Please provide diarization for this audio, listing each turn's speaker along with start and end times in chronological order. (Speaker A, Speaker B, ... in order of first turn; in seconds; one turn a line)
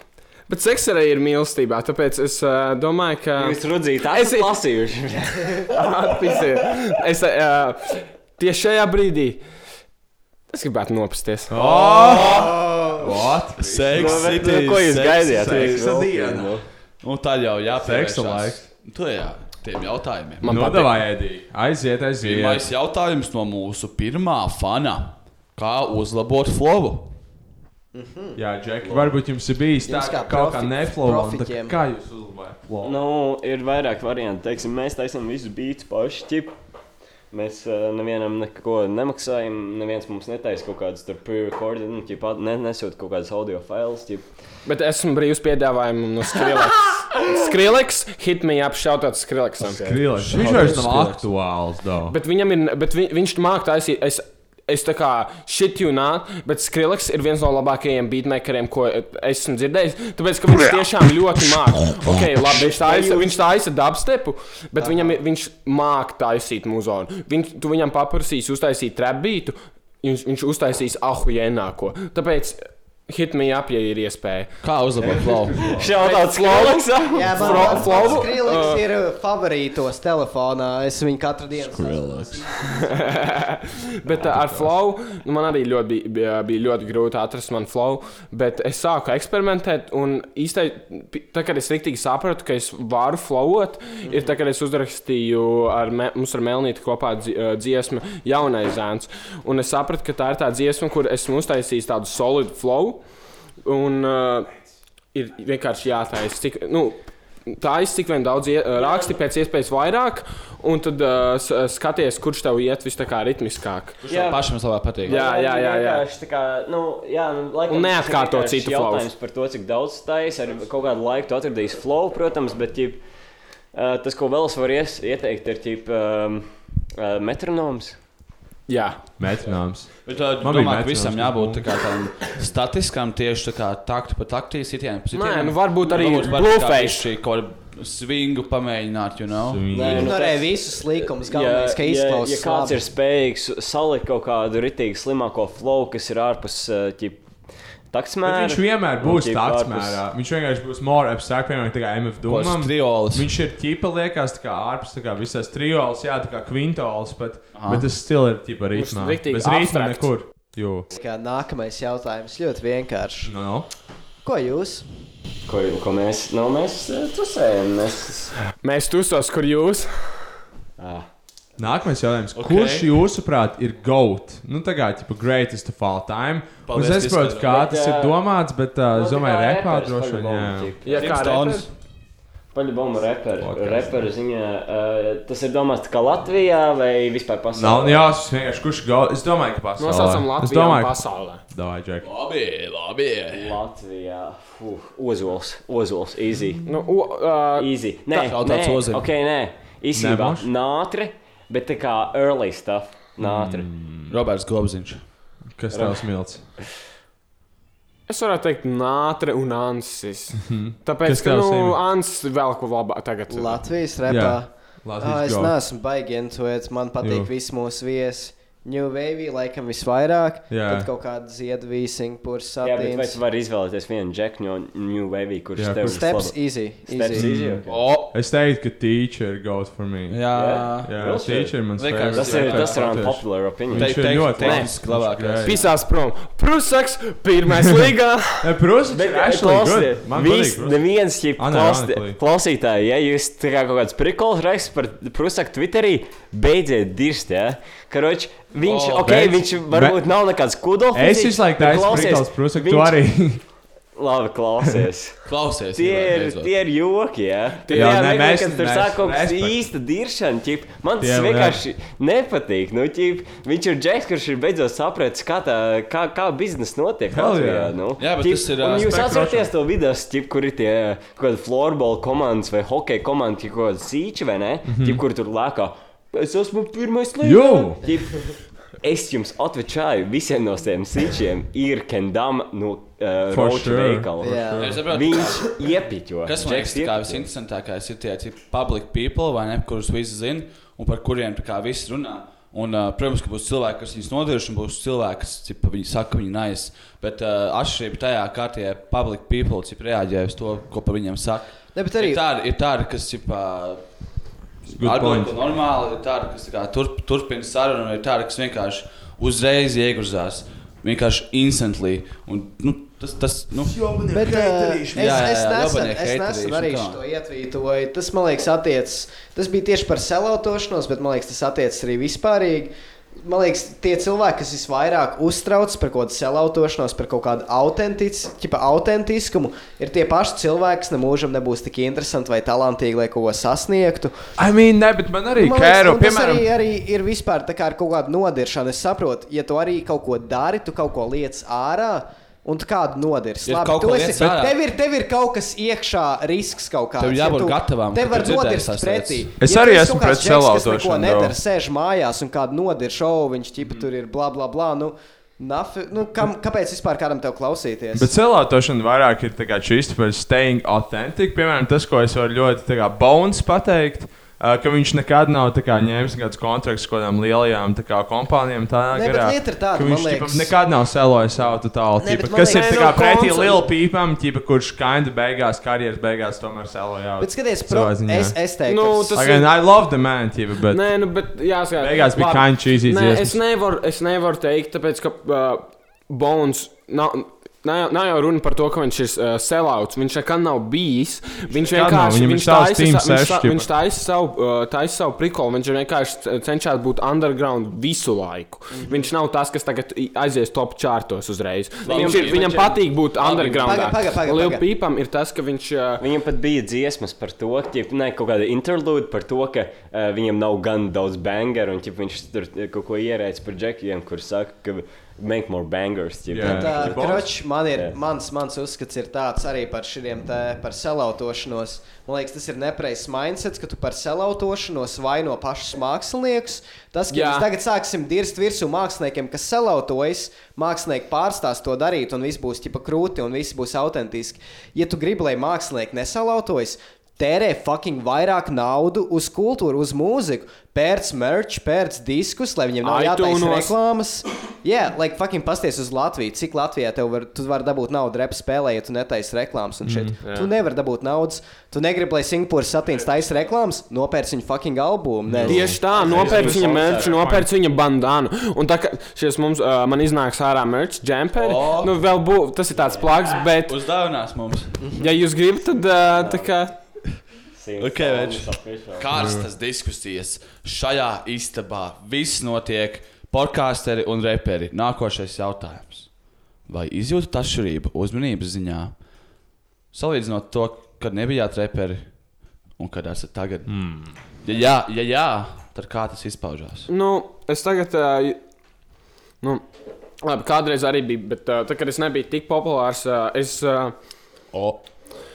Speaker A: 0.5-4.5
Speaker B: 3.4-5.7
Speaker A: 5.7-9.4
Speaker A: 10.5-11.6
Speaker C: 11.5-14.5
Speaker D: 11.6-12.5
Speaker B: 12.1-12.5
Speaker D: 13.6-16.0
Speaker B: 13.9-16.6
Speaker C: 15.2-16.6
Speaker D: 17.0-20.7
Speaker C: 17.8-18.6
Speaker A: 20.4-20.9
Speaker C: 20.4-22.6
Speaker D: 22.2-27.1
Speaker E: 27.9-28.4
Speaker C: 28.4-32.9
Speaker E: 29.8-31.8
Speaker B: 32.8-36.5
Speaker B: 37.3-44.2
Speaker A: 44.6-49.9
Speaker C: 49.7-52.1
Speaker D: 50.1-51.2
Speaker A: 52.1-74.5
Speaker B: 62.6-63.4
Speaker E: 64.8-65.1
Speaker D: 74.6-75.7
Speaker C: 75.4-75.9
Speaker B: 75.6-78.3
Speaker A: 76.0-78.8
Speaker E: 77.1-83.0
Speaker A: 82.6-103.0
Speaker C: 84.1-84.7
Speaker A: 103.6-104.5
Speaker A: 105.1-114.0
Speaker B: 108.7-109.2
Speaker D: 114.0-115.2
Speaker B: 114.1-114.5
Speaker B: 115.0-123.0
Speaker A: 115.0-116.0
Speaker A: 117.7-119.1
Speaker B: 123.7-128.0
Speaker A: 128.7-129.0
Speaker C: 129.2-131.8
Speaker D: 130.0-139.7
Speaker A: 135.1-137.1
Speaker C: 139.4-140.2
Speaker B: 139.7-147.2
Speaker E: 139.7-142.9
Speaker B: 147.9-150.0
Speaker C: 148.2-160.9
Speaker D: 152.2-153.3
Speaker D: 157.5-157.8
Speaker A: 158.7-160.1
Speaker E: 160.9-163.3
Speaker C: 163.2-163.7
Speaker E: 164.2-164.8
Speaker B: 165.4-168.3
Speaker A: 168.6-170.2
Speaker B: 170.8-171.1
Speaker C: 171.6-180.7
Speaker D: 172.3-172.9
Speaker D: 176.6-177.5
Speaker B: 177.5-178.2
Speaker B: 178.9-181.0
Speaker A: 180.8-181.7
Speaker D: 180.9-181.7
Speaker B: 182.5-188.1
Speaker C: 183.4-183.9
Speaker C: 187.5-192.1
Speaker A: 189.8-191.4
Speaker D: 192.0-193.6
Speaker B: 193.3-196.6
Speaker A: 196.7-198.2
Speaker B: 197.6-203.7
Speaker D: 198.2-199.0
Speaker C: 199.9-200.4
Speaker C: 203.2-204.1
Speaker D: 204.1-205.1
Speaker C: 205.5-206.4
Speaker B: 205.7-206.0
Speaker A: 208.1-213.6
Speaker C: 210.4-211.8
Speaker E: 213.3-223.2
Speaker C: 214.1-215.5
Speaker C: 217.0-217.3
Speaker C: 220.5-220.9
Speaker B: 222.6-227.8
Speaker C: 225.6-226.1
Speaker E: 225.8-227.3
Speaker C: 227.1-230.2
Speaker D: 227.7-228.1
Speaker D: 230.1-231.2
Speaker B: 230.3-231.6
Speaker C: 230.8-235.6
Speaker D: 231.7-232.9
Speaker B: 232.1-234.2
Speaker D: 233.7-235.7
Speaker A: 234.4-234.7
Speaker A: 235.4-238.5
Speaker C: 238.4-240.8
Speaker B: 238.9-253.0
Speaker C: 241.4-242.2
Speaker D: 248.6-249.3
Speaker C: 249.0-250.0
Speaker C: 250.9-253.4
Speaker B: 253.9-255.2
Speaker D: 255.3-256.5
Speaker B: 255.7-287.3
Speaker A: 257.6-258.1
Speaker C: 257.7-259.6
Speaker C: 261.0-261.6
Speaker C: 267.1-267.7
Speaker D: 268.0-269.3
Speaker C: 268.9-269.4
Speaker C: 274.7-275.0
Speaker C: 277.2-277.8
Speaker C: 283.3-284.7
Speaker E: 284.2-284.8
Speaker D: 284.6-285.6
Speaker D: 286.2-303.8
Speaker E: 301.7-302.2
Speaker D: 304.7-317.0
Speaker C: 304.7-305.3
Speaker C: 313.7-315.1
Speaker E: 314.1-334.2
Speaker C: 334.4-336.4
Speaker E: 335.4-358.1
Speaker D: 343.4-344.6
Speaker D: 347.0-349.3
Speaker C: 349.4-351.4
Speaker C: 357.9-378.4
Speaker E: 368.9-370.6
Speaker E: 372.0-372.9
Speaker A: 372.4-373.6
Speaker E: 377.2-379.2
Speaker A: 378.7-379.5
Speaker C: 379.1-380.9
Speaker A: 380.7-406.0
Speaker C: 381.8-383.4
Speaker C: 391.6-393.7
Speaker D: 401.8-403.8
Speaker B: 401.9-402.8
Speaker E: 403.6-404.6
Speaker B: 406.0-417.9
Speaker C: 416.3-417.3
Speaker E: 416.4-455.8
Speaker A: 427.1-427.5
Speaker A: 442.8-443.7
Speaker C: 449.8-450.2
Speaker C: 455.3-457.5
Speaker A: 455.4-463.8
Speaker B: 455.9-457.2
Speaker D: 461.3-461.9
Speaker B: 462.7-463.2
Speaker D: 463.4-464.9
Speaker A: 465.0-466.7
Speaker B: 466.1-466.6
Speaker B: 467.6-469.1
Speaker D: 467.8-476.1
Speaker C: 469.1-469.4
Speaker D: 476.7-478.9
Speaker D: 479.9-482.1
Speaker D: 482.8-483.7
Speaker C: 483.7-484.1
Speaker D: 484.4-486.9
Speaker A: 486.9-488.4
Speaker A: 490.2-493.9
Speaker D: 494.5-494.8